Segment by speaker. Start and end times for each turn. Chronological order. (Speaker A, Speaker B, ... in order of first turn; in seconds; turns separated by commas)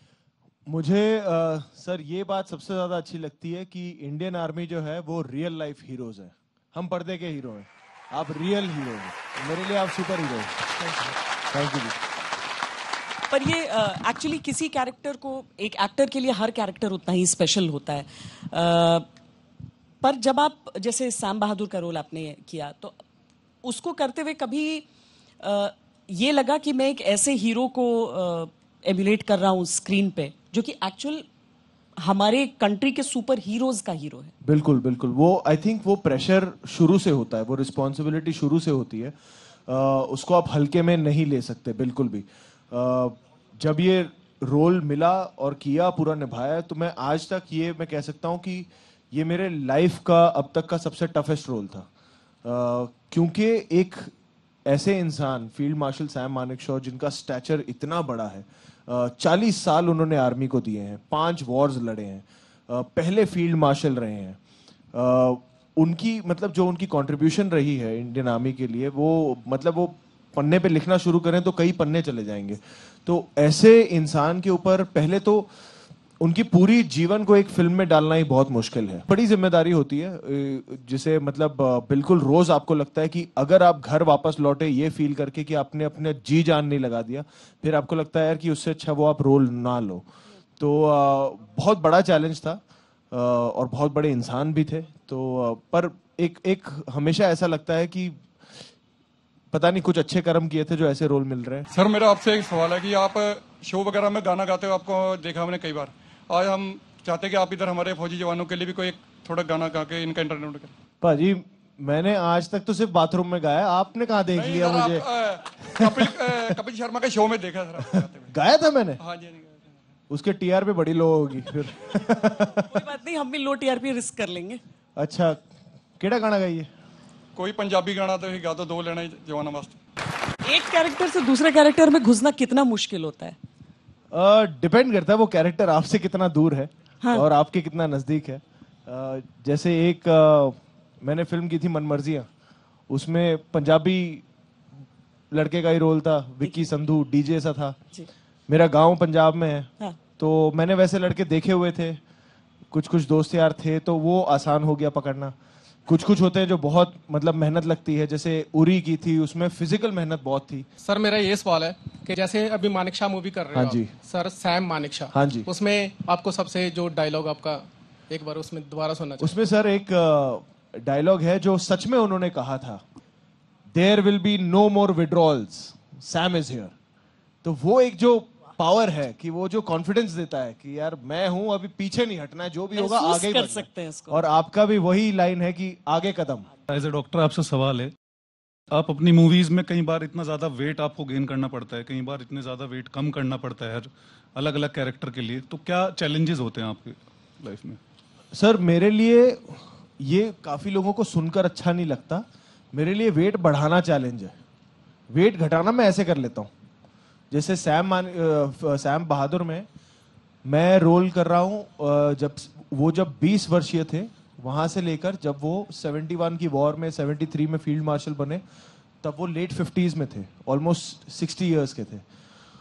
Speaker A: 0.7-10.6, Speaker A: 11.5-12.0, Speaker B: 13.3-19.1, Speaker B: 20.0-23.0, Speaker B: 23.6-24.9, Speaker B: 25.4-31.3, Speaker B: 32.0-34.3, Speaker A: 34.4-39.1, Speaker A: 39.7-51.9, Speaker A: 52.4-54.1, Speaker A: 54.7-64.4, Speaker A: 64.9-75.5, Speaker A: 76.2-90.0, Speaker A: 90.6-98.4, Speaker A: 99.5-101.7, Speaker C: 101.7-110.7, Speaker A: 111.0-115.0, Speaker C: 114.3-118.3, Speaker A: 115.6-116.2, Speaker A: 117.8-119.0, Speaker C: 119.0-119.8, Speaker A: 120.1-122.8, Speaker B: 122.7-124.6, Speaker A: 125.0-125.4, Speaker A: 126.0-126.7, Speaker C: 127.4-129.8, Speaker B: 130.4-133.4, Speaker A: 134.1-142.3, Speaker A: 142.9-144.2, Speaker A: 145.3-147.8, Speaker B: 146.4-146.7, Speaker A: 148.5-152.0, Speaker A: 152.7-155.3, Speaker A: 155.9-160.7, Speaker D: 160.8-169.3, Speaker A: 163.5-163.9, Speaker A: 165.1-165.5, Speaker A: 169.2-172.8, Speaker A: 173.7-176.7, Speaker A: 177.4-186.5, Speaker B: 182.8-184.2, Speaker E: 186.7-187.9, Speaker E: 188.7-197.8, Speaker A: 198.3-204.3, Speaker A: 205.1-206.5, Speaker A: 207.3-209.7, Speaker A: 210.4-218.4, Speaker A: 219.0-222.0